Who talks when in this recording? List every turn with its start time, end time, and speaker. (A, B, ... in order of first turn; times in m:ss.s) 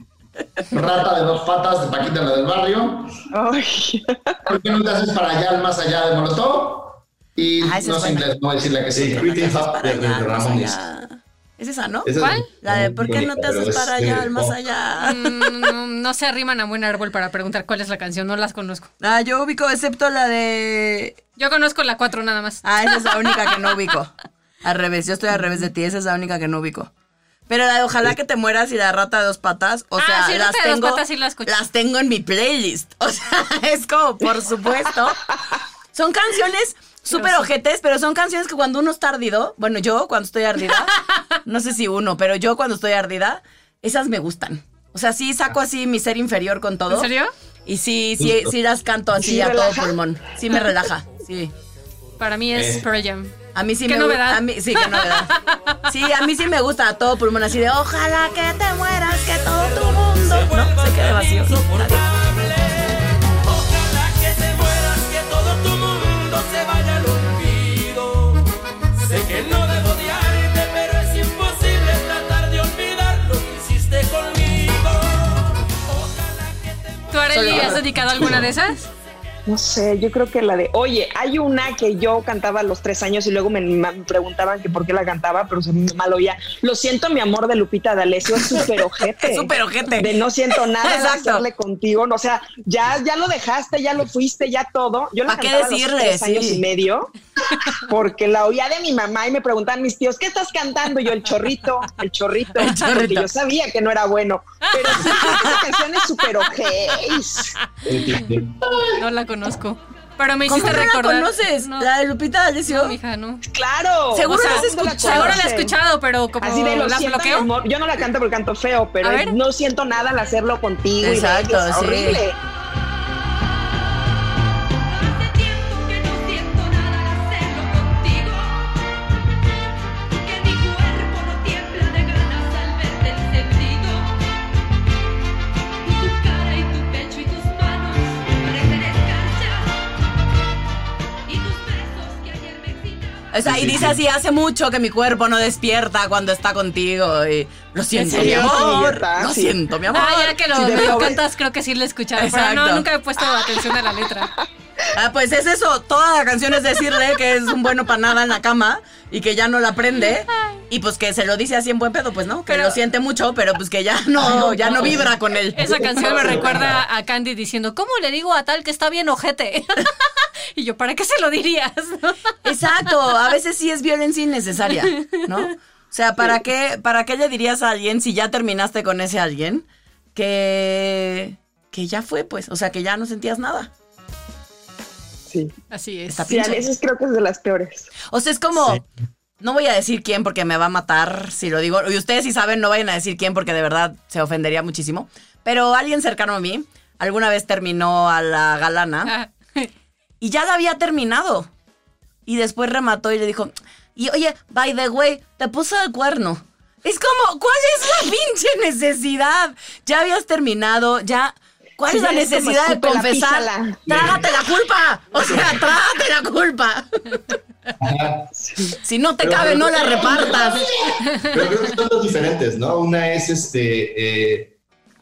0:00.7-0:03.2 A
0:03.3-0:04.4 B
0:04.5-0:09.2 A
0:07.6-0:08.3 C
0:08.9-0:10.8 D
0:09.0-0:15.5 C
0:12.0-0:14.6 D
0:12.2-0:12.5 E
0:15.0-0:18.9 E
0:19.0-0:21.2 C
0:21.4-0:23.7 E
0:22.6-0:26.9 C
0:27.5-0:35.2 C
0:30.0-0:31.5 E
0:35.9-0:41.0 C
0:37.1-0:37.5 E
0:41.5-0:47.1 C
0:46.9-0:47.3 E
0:47.7-0:51.5 C
0:48.2-0:48.6 D
0:49.2-0:50.0 B
0:52.2-0:53.3 E
0:52.5-0:52.8 D
0:53.5-0:55.3 C
0:53.9-0:55.8 E
0:55.8-1:02.0 C
0:59.3-1:08.5 F
1:09.0-1:17.9 F
1:17.1-1:18.8 E
1:17.3-1:18.4 C
1:18.2-1:18.4 D
1:19.5-1:37.1 B
1:29.2-1:30.2 C
1:30.8-1:31.4 C
1:35.3-1:36.6 C
1:37.7-1:47.5 B
1:42.6-1:43.3 C
1:44.8-1:45.1 E
1:45.0-1:45.6 C
1:47.6-1:48.2 E
1:47.9-1:48.6 D
1:48.6-1:48.9 A
1:48.9-1:51.9 E
1:50.5-1:53.0 C
1:52.7-1:53.4 E
1:53.5-1:55.8 B
1:54.1-1:55.4 C
1:54.2-1:57.5 E
1:56.4-2:02.4 B
1:59.0-1:59.4 E
2:01.0-2:02.2 C
2:05.7-2:08.2 B
2:10.4-2:13.8 B
2:16.1-2:17.7 B
2:18.4-2:19.5 B
2:23.3-2:31.2 C
2:23.4-2:24.0 D
2:28.0-2:29.6 B
2:29.9-2:34.3 E
2:30.5-2:31.2 B
2:32.2-2:32.9 C
2:33.2-2:34.4 B
2:34.9-2:45.7 C
2:42.5-2:42.8 E
2:44.3-2:44.7 B
2:44.7-2:45.0 D
2:45.5-2:49.9 E
2:45.6-2:46.8 D
2:50.6-2:52.2 E
2:52.4-3:03.7 C
2:54.7-2:55.3 E
3:05.3-3:05.6 B
3:05.7-3:06.4 E
3:06.1-3:06.6 C
3:06.3-3:08.0 B
3:08.1-3:08.8 C
3:09.4-3:19.1 C
3:19.0-3:19.7 E
3:20.2-3:21.5 C
3:22.3-3:36.9 C
3:31.9-3:34.0 B
3:33.9-3:34.2 D
3:35.2-3:35.7 D
3:37.8-3:38.3 D
3:38.8-3:40.7 C
3:39.2-3:40.6 D
3:39.7-3:41.0 A
3:41.2-3:44.5 D